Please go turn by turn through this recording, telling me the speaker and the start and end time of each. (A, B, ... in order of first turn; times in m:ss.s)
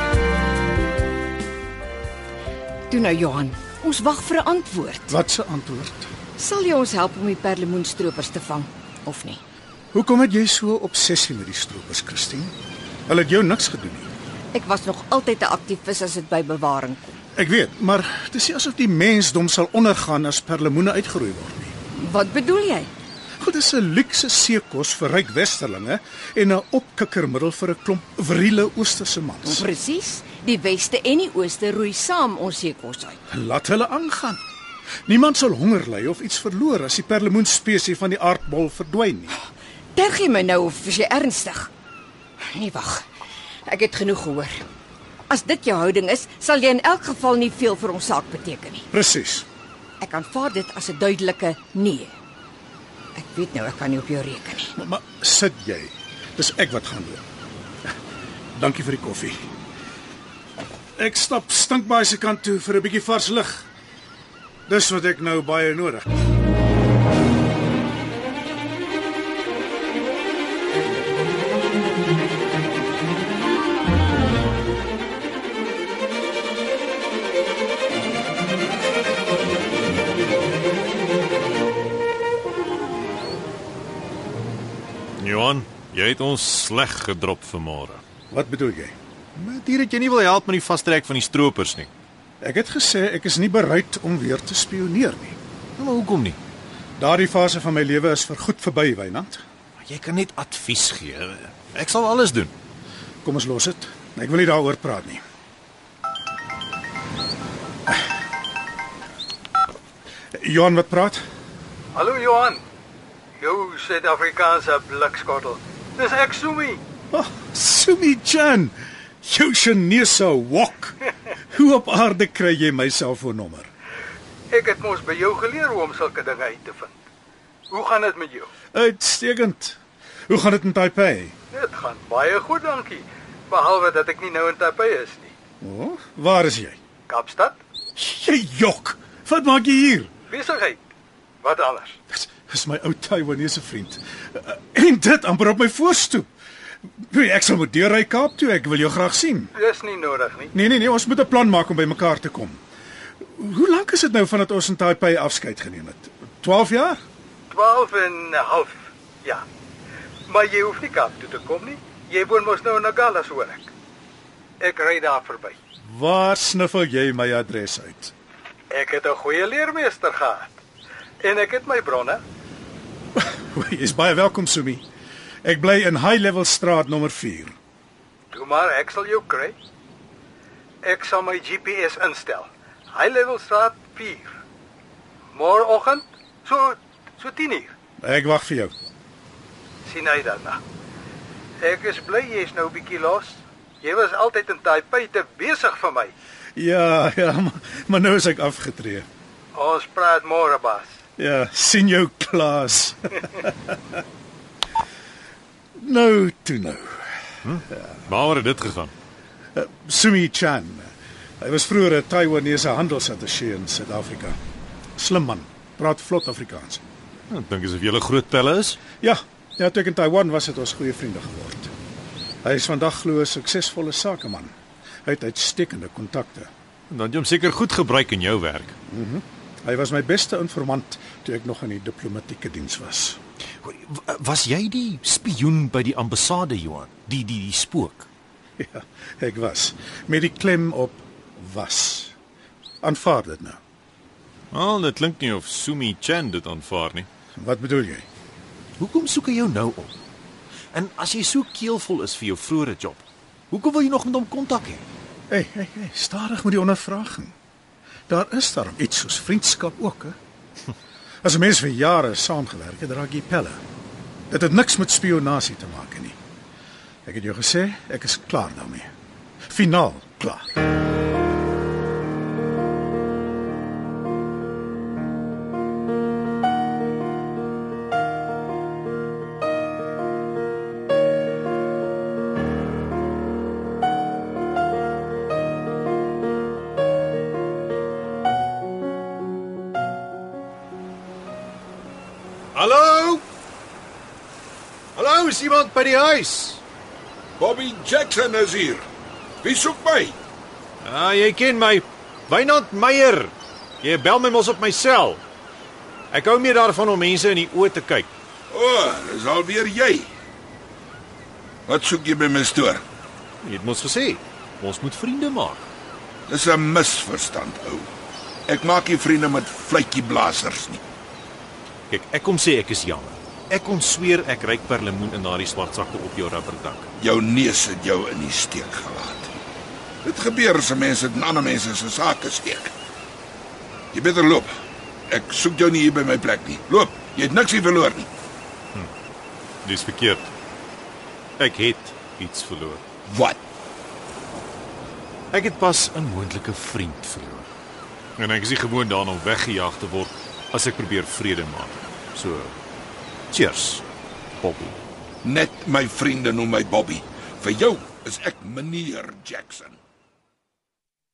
0:02.9-0:05.1 A
0:05.1-0:06.1 B
0:06.4-0:09.4 A
0:09.9-0:12.5 B
0:13.1-0:14.1 B
0:14.5-0:17.2 A
0:17.4-0:21.7 B
0:21.9-0:22.9 A
0:23.4-0:29.6 B
0:29.4-0:33.2 A
0:33.3-0:34.4 B
0:35.1-0:39.3 B
0:39.9-0:41.7 A
0:42.5-0:43.0 A
0:43.6-0:44.6 A
0:45.3-0:48.9 A
0:48.9-0:49.4 B
0:50.0-0:52.1 A
0:53.2-0:54.8 A
0:54.7-0:57.2 B
0:58.5-0:59.4 B
1:01.0-1:03.7 B
1:04.7-1:06.1 B
1:25.2-1:28.0 C
1:28.3-1:28.9 B
1:29.4-1:31.9 C
1:32.4-1:35.4 B
1:35.8-1:36.4 C
1:37.0-1:39.4 B
1:39.8-1:42.5 C
1:43.2-1:45.2 B
1:50.3-1:51.2 B
1:51.9-1:52.6 D
1:53.4-1:56.8 D
1:57.1-2:01.0 B
2:01.5-2:03.7 B
2:04.5-2:06.9 D
2:07.7-2:08.5 D
2:08.7-2:09.8 B
2:10.3-2:11.3 B
2:11.5-2:15.3 D
2:15.6-2:16.8 B
2:17.1-2:17.6 D
2:18.0-2:20.1 B
2:20.3-2:20.8 D
2:21.4-2:22.0 D
2:22.1-2:26.3 B
2:27.0-2:29.5 B
2:29.6-2:30.5 D
2:30.5-2:32.6 B
2:33.2-2:37.0 B
2:37.5-2:39.4 D
2:40.3-2:43.7 D
2:44.6-2:45.6 D
2:45.8-2:48.1 B
2:48.7-2:50.5 D
2:51.2-2:52.2 D
2:53.2-2:54.8 B
2:55.4-2:57.6 B
2:58.3-2:59.6 D
3:00.8-3:04.4 D
3:05.3-3:07.7 D
3:08.0-3:08.7 B
3:09.8-3:10.6 D
3:11.6-3:16.1 D
3:16.6-3:19.1 B
3:19.5-3:20.9 D
3:21.2-3:23.8 B
3:25.8-3:27.1 B
3:27.4-3:28.9 C
3:29.5-3:34.4 B
3:35.0-3:36.8 B
3:37.3-3:38.8 C
3:39.0-3:41.7 B
3:42.4-3:44.5 B
3:45.0-3:46.5 B
3:46.9-3:48.7 C
3:48.9-3:53.2 B
3:53.6-3:58.0 C
3:58.6-4:02.1 B
4:02.8-4:03.6 B
4:04.5-4:07.1 C
4:07.4-4:08.0 B
4:08.8-4:09.9 C
4:10.7-4:14.8 C
4:15.3-4:17.3 B
4:18.1-4:20.2 B
4:21.2-4:23.6 B
4:24.3-4:26.2 B
4:27.0-4:28.9 B
4:29.5-4:30.6 B
4:52.5-4:53.2 C
4:54.9-4:56.6 C
4:57.4-4:58.8 E
4:59.4-5:00.2 E
5:00.8-5:05.2 C
5:06.1-5:08.1 C
5:08.5-5:10.1 E
5:11.7-5:12.8 E
5:13.4-5:15.6 C
5:16.3-5:17.9 E
5:18.5-5:20.8 E
5:21.9-5:26.9 C
5:27.0-5:29.3 E
5:30.0-5:32.7 E
5:33.9-5:34.5 E
5:35.1-5:38.1 E
5:39.6-5:40.3 C
5:41.4-5:42.8 C
5:43.1-5:43.4 E
5:45.3-5:47.5 C
5:48.2-5:52.5 C
5:53.3-5:53.8 C
5:54.4-5:54.8 C
5:55.2-5:59.8 E